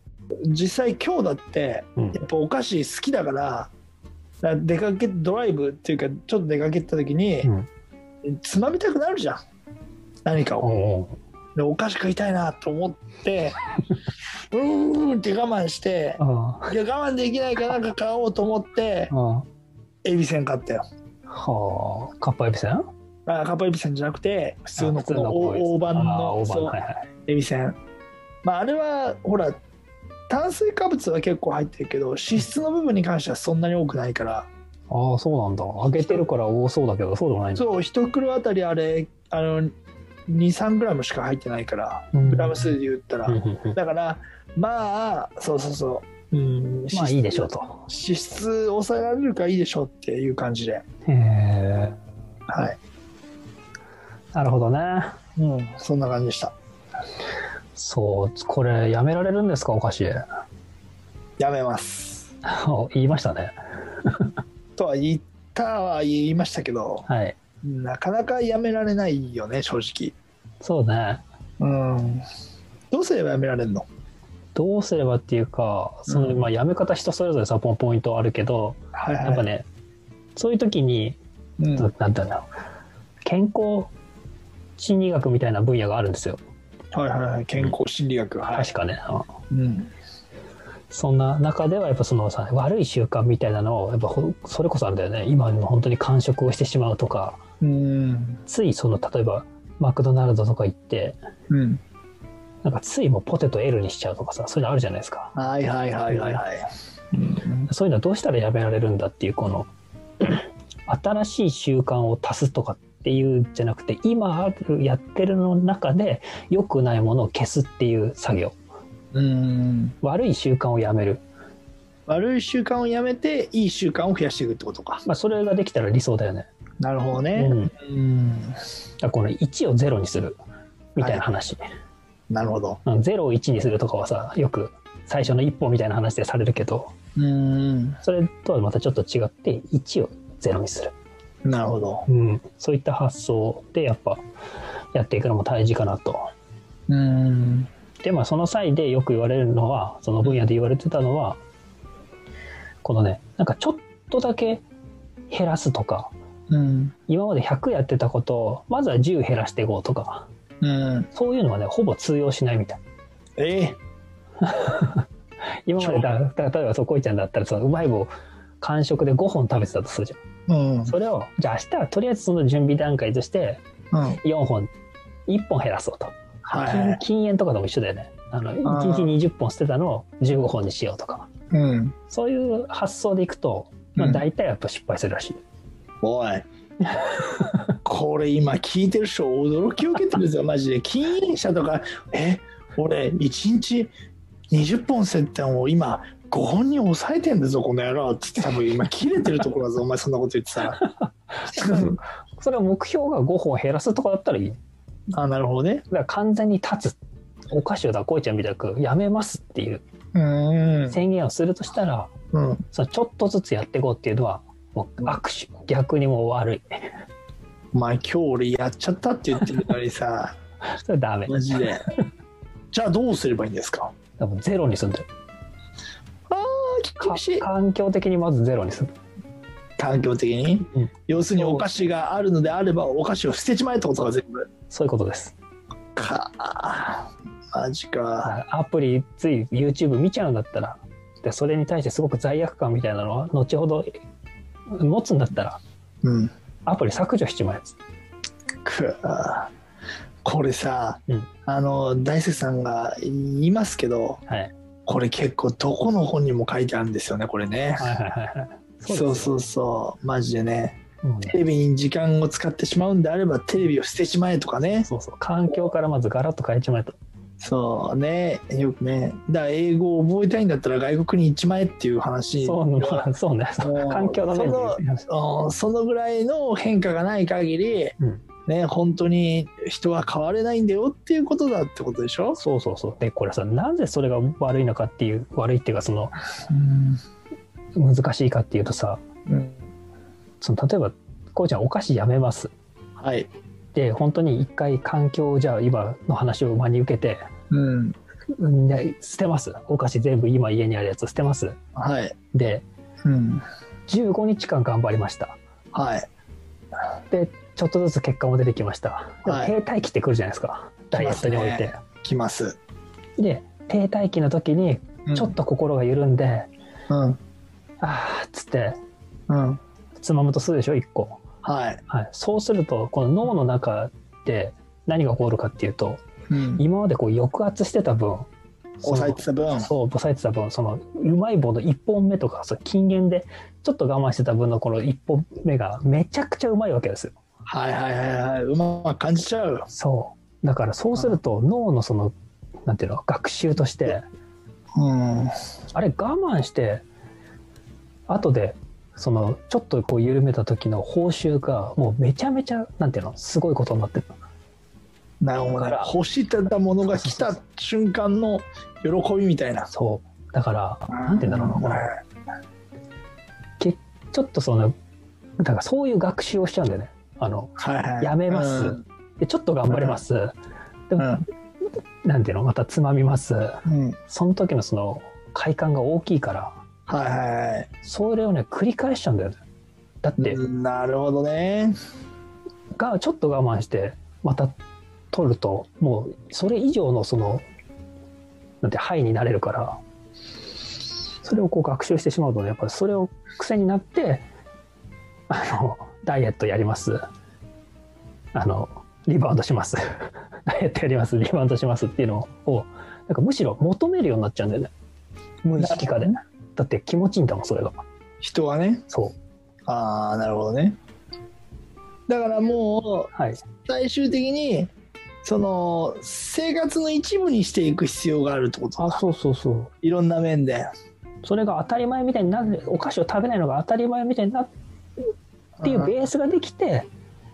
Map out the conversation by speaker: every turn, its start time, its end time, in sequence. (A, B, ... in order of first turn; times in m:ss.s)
0:00.5-0:03.7 A
0:04.4-0:07.5 A
0:08.3-0:09.4 A
0:10.3-0:10.7 A
0:10.6-0:11.2 B
0:11.6-0:13.6 A
0:14.5-0:19.1 A
0:16.2-0:16.7 B
0:19.1-0:19.4 B
0:20.0-0:20.8 A
0:21.3-0:22.9 B
0:23.3-0:27.8 A
0:24.8-0:27.1 B
0:28.4-0:29.6 A
0:30.3-0:34.5 A
0:34.9-0:37.7 B
0:35.9-0:36.2 A
0:37.6-0:39.7 A
0:40.3-0:50.8 A
0:42.1-0:42.8 B
0:43.3-0:43.8 B
0:46.9-0:47.8 B
0:51.1-0:52.0 B
0:52.5-0:52.8 A
0:54.3-0:55.2 B
0:55.4-0:56.5 A
0:57.8-1:00.2 B
1:01.4-1:02.3 A
1:02.4-1:04.3 B
1:04.8-1:07.1 A
1:07.1-1:07.4 B
1:07.6-1:10.2 A
1:10.6-1:11.2 B
1:11.6-1:12.2 A
1:12.9-1:13.8 A
1:14.6-1:19.7 B
1:16.1-1:16.5 A
1:19.0-1:19.5 A
1:20.4-1:21.2 B
1:21.6-1:21.9 A
1:21.8-1:22.4 B
1:23.2-1:23.9 B
1:24.8-1:26.4 B
1:26.9-1:28.7 A
1:28.5-1:29.3 B
1:29.5-1:29.9 A
1:30.9-1:37.4 B
1:37.6-1:38.4 A
1:38.5-1:41.2 B
1:41.5-1:41.8 A
1:42.6-1:45.3 B
1:45.4-1:47.7 A
1:46.1-1:46.4 B
1:47.7-1:49.7 B
1:50.2-1:58.6 B
1:59.1-2:00.0 A
2:00.0-2:01.2 B
2:02.1-2:05.0 A
2:05.0-2:06.5 B
2:06.8-2:08.6 A
2:07.4-2:07.7 B
2:09.0-2:10.4 B
2:11.0-2:11.3 A
2:11.0-2:11.6 B
2:12.3-2:12.8 A
2:12.8-2:16.9 B
2:17.2-2:18.0 A
2:18.0-2:20.9 B
2:21.4-2:22.1 A
2:22.1-2:24.2 B
2:24.9-2:26.3 B
2:26.9-2:27.7 A
2:28.0-2:31.4 B
2:32.8-2:34.6 B
2:35.3-2:36.1 B
2:36.5-2:37.0 A
2:37.1-2:40.3 B
2:40.6-2:41.1 A
2:41.2-2:42.8 B
2:43.4-2:43.8 A
2:44.4-2:45.0 B
2:45.7-2:48.1 B
2:45.8-2:46.2 A
2:48.6-2:50.2 B
2:50.5-2:51.0 A
2:50.9-2:53.6 B
2:53.9-2:54.2 A
2:54.2-2:54.7 B
2:55.3-3:01.3 B
2:56.5-2:57.0 A
2:58.6-2:59.2 A
3:01.5-3:02.0 A
3:02.1-3:05.4 B
3:04.0-3:04.2 A
3:06.0-3:06.5 A
3:06.9-3:07.6 B
3:07.8-3:13.9 A
3:14.5-3:20.8 A
3:20.8-3:24.6 B
3:21.5-3:22.0 A
3:25.2-3:25.8 A
3:25.9-3:27.0 B
3:27.5-3:29.8 B
3:30.1-3:31.0 A
3:30.9-3:32.1 B
3:32.3-3:32.6 A
3:32.7-3:36.7 B
3:37.7-3:40.4 A
3:40.8-3:41.7 B
3:41.3-3:41.9 A
3:42.7-3:43.9 A
3:44.2-3:45.1 B
3:46.3-3:47.5 A
3:47.0-3:48.9 B
3:49.8-3:54.5 A
3:50.7-3:51.7 B
3:54.7-3:55.4 B
3:56.0-3:58.4 A
3:58.2-4:03.9 B
4:04.8-4:05.6 B
4:06.0-4:06.3 A
4:06.7-4:07.8 B
4:08.6-4:09.5 A
4:10.2-4:14.2 A
4:14.3-4:14.5 B
4:14.9-4:17.9 A
4:17.8-4:19.3 B
4:18.9-4:24.9 A
4:21.0-4:21.4 B
4:24.9-4:27.0 B
4:27.4-4:33.1 A
4:32.4-4:35.1 B
4:33.6-4:38.0 A
4:38.5-4:42.4 A
4:42.4-4:46.2 B
4:46.5-4:47.0 A
4:47.8-4:49.0 B
4:49.3-4:49.6 A
4:50.4-4:52.5 B
4:53.0-4:53.3 A
4:53.7-4:57.2 B
4:57.5-4:58.0 A
4:58.4-5:01.6 B
5:01.8-5:02.2 A
5:02.3-5:02.6 B
5:03.0-5:03.4 A
5:03.9-5:05.4 B
5:05.7-5:06.1 A
5:07.1-5:11.8 B
5:09.2-5:09.5 A
5:10.9-5:12.6 A
5:13.2-5:16.5 B
5:15.1-5:15.4 A
5:16.9-5:17.2 A
5:17.8-5:18.8 B
5:19.3-5:19.6 A
5:20.0-5:21.2 B
5:21.4-5:21.8 A
5:21.9-5:26.0 B
5:26.3-5:26.7 A
5:26.6-5:28.3 B
5:28.8-5:37.2 B
5:28.8-5:29.7 A
5:37.5-5:39.7 A
5:39.7-5:42.1 B
5:42.7-5:44.0 B
5:44.8-5:45.3 A
5:45.7-5:46.8 B
5:48.1-5:54.1 B
5:55.2-5:59.7 A
5:55.6-5:55.9 B
5:56.9-5:57.3 B
5:59.7-6:01.9 B
6:00.9-6:01.9 A
6:03.6-6:04.7 B
6:05.4-6:10.4 B
6:07.6-6:08.8 A
6:09.7-6:10.0 A
6:11.0-6:11.2 A
6:12.0-6:16.6 B
6:13.7-6:14.0 A
6:16.9-6:17.7 A
6:17.8-6:19.4 B
6:20.0-6:20.4 B
6:20.2-6:21.8 A
6:22.8-6:24.6 B
6:25.1-6:27.4 B
6:28.6-6:29.8 B
6:31.2-6:34.2 B
6:35.3-6:37.0 B
6:38.3-6:44.7 B
6:45.4-6:47.8 B
6:45.6-6:46.2 A
6:48.2-6:48.8 A
6:48.9-6:49.1 B
6:49.7-6:50.8 A
6:52.1-6:53.1 A
6:53.1-6:53.4 B
6:53.6-6:54.7 A
6:55.2-6:59.0 A
6:58.8-6:59.7 B
6:59.8-7:00.7 A
7:01.2-7:04.5 B
7:05.6-7:05.9 A
7:05.6-7:06.9 B